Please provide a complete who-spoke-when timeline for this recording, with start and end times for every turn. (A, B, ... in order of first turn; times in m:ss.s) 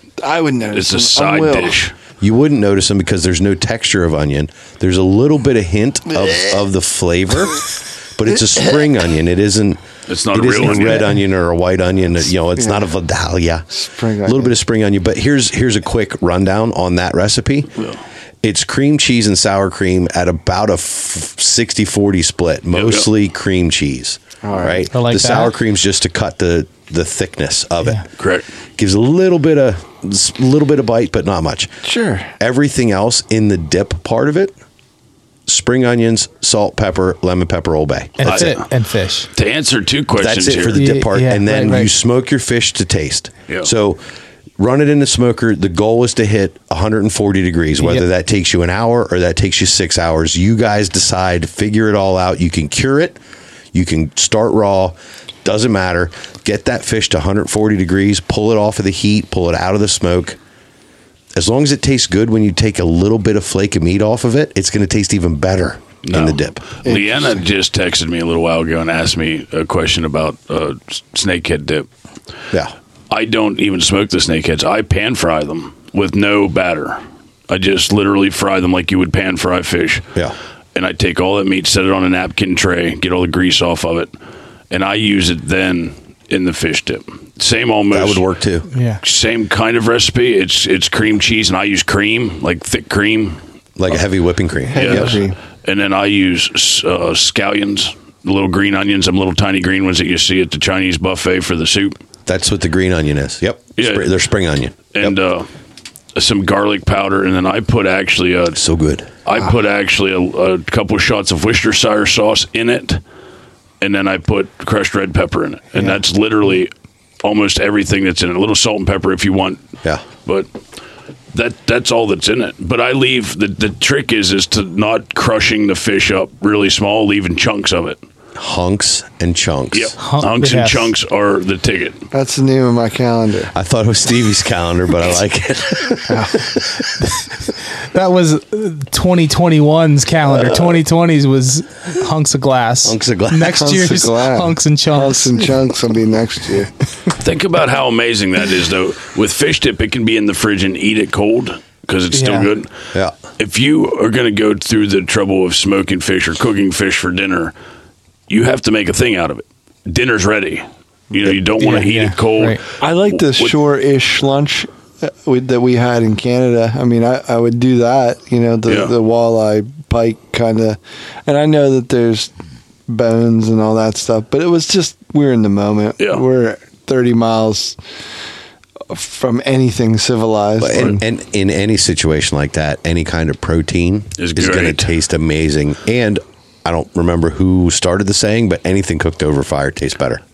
0:00.2-0:01.8 A
0:00.7-0:01.9 B
0:02.2-0:13.7 C
0:06.2-0:06.6 A
0:10.1-0:11.1 B
0:12.6-0:12.8 A
0:13.8-0:14.6 A
0:14.2-0:17.7 C
0:18.4-0:28.1 C
0:22.7-0:23.1 B
0:24.4-0:24.8 A
0:24.9-0:25.6 D
0:28.2-0:28.5 B
0:28.8-0:31.7 C
0:31.8-0:32.3 A
0:32.4-0:34.5 C
0:35.5-0:38.5 C
0:38.2-0:39.3 D
0:38.2-0:38.7 B
0:39.3-0:40.9 B
0:40.1-0:44.0 C
0:40.7-0:41.9 D
0:44.6-0:53.2 C
0:53.7-1:00.4 C
1:01.4-1:06.6 C
1:06.0-1:11.9 B
1:06.8-1:07.4 A
1:13.1-1:20.1 B
1:20.7-1:24.1 B
1:24.7-1:28.2 B
1:27.9-1:28.7 C
1:28.7-1:29.0 D
1:29.0-1:33.4 B
1:33.8-1:35.2 C
1:34.7-1:35.4 A
1:34.8-1:42.0 B
1:42.3-1:45.2 C
1:43.8-1:44.1 B
1:44.9-1:45.5 B
1:46.2-1:48.6 B
1:48.5-1:49.1 C
1:49.3-1:53.0 B
1:53.8-1:59.6 B
2:01.3-2:08.0 B
2:08.4-2:09.9 C
2:09.7-2:12.0 B
2:10.0-2:10.9 D
2:12.1-2:13.5 A
2:13.5-2:16.8 C
2:16.1-2:16.5 A
2:17.9-2:25.3 D
2:22.8-2:23.7 C
2:23.6-2:26.7 A
2:27.2-2:32.7 B
2:32.1-2:32.5 D
2:33.4-2:37.5 B
2:38.3-2:43.6 B
2:41.6-2:42.6 D
2:42.8-2:52.3 A
2:48.7-2:48.9 B
2:52.9-2:57.8 A
2:58.9-3:01.0 A
3:00.6-3:10.2 C
3:04.2-3:04.9 B